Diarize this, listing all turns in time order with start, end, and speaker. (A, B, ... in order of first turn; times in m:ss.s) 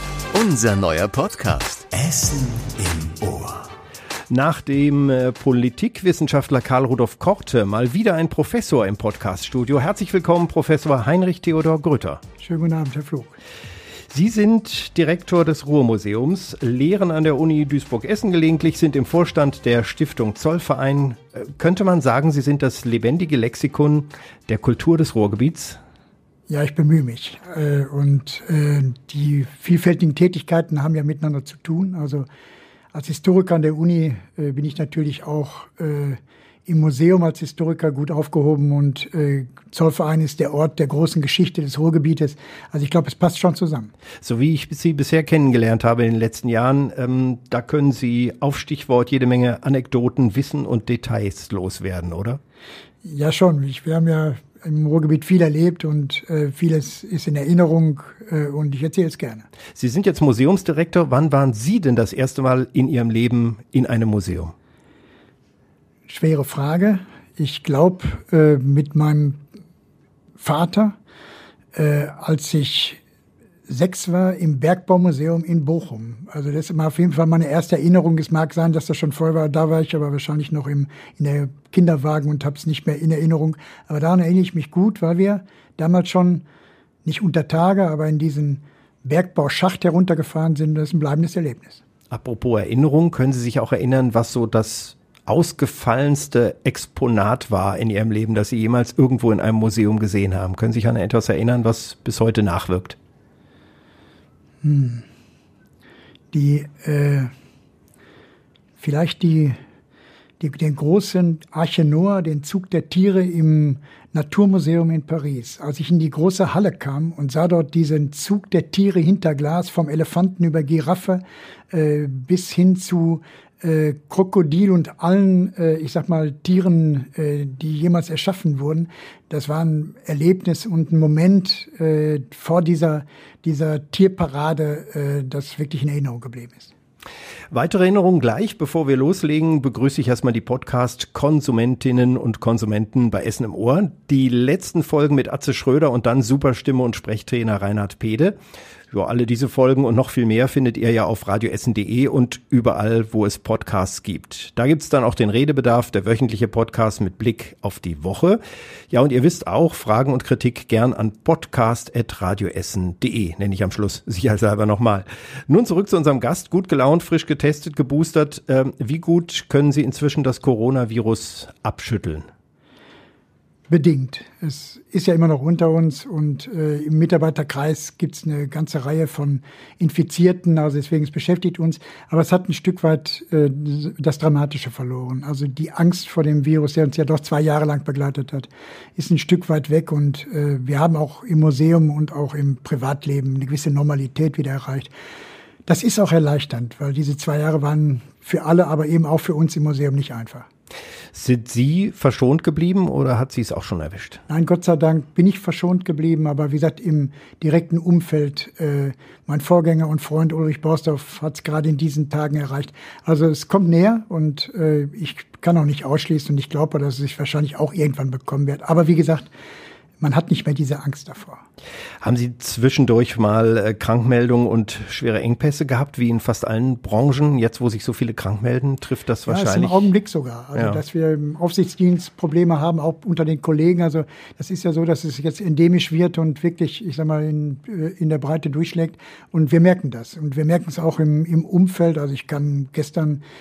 0:00.3-0:03.7 A
0:04.3-0:12.2 B
0:12.4-0:13.4 C
0:14.1-0:25.8 B
0:26.5-0:32.3 C
0:32.9-0:43.9 C
0:44.2-0:52.4 B
0:53.0-0:59.4 C
0:59.7-1:04.5 B
1:06.1-1:09.4 C
1:10.4-1:11.0 C
1:11.7-1:13.0 C
1:13.7-1:26.4 C
1:27.0-1:31.8 C
1:32.1-1:43.0 B
1:44.6-1:45.0 C
1:46.3-1:47.3 C
1:48.8-1:49.6 C
1:50.4-2:16.7 C
2:17.5-2:28.4 B
2:28.9-2:52.2 B
2:53.7-3:14.9 C
3:15.7-3:20.5 C
3:21.1-3:24.2 B
3:24.3-3:39.3 C
3:40.0-3:41.4 C
3:42.0-3:49.9 B
3:49.3-4:03.2 C
3:50.5-3:50.8 B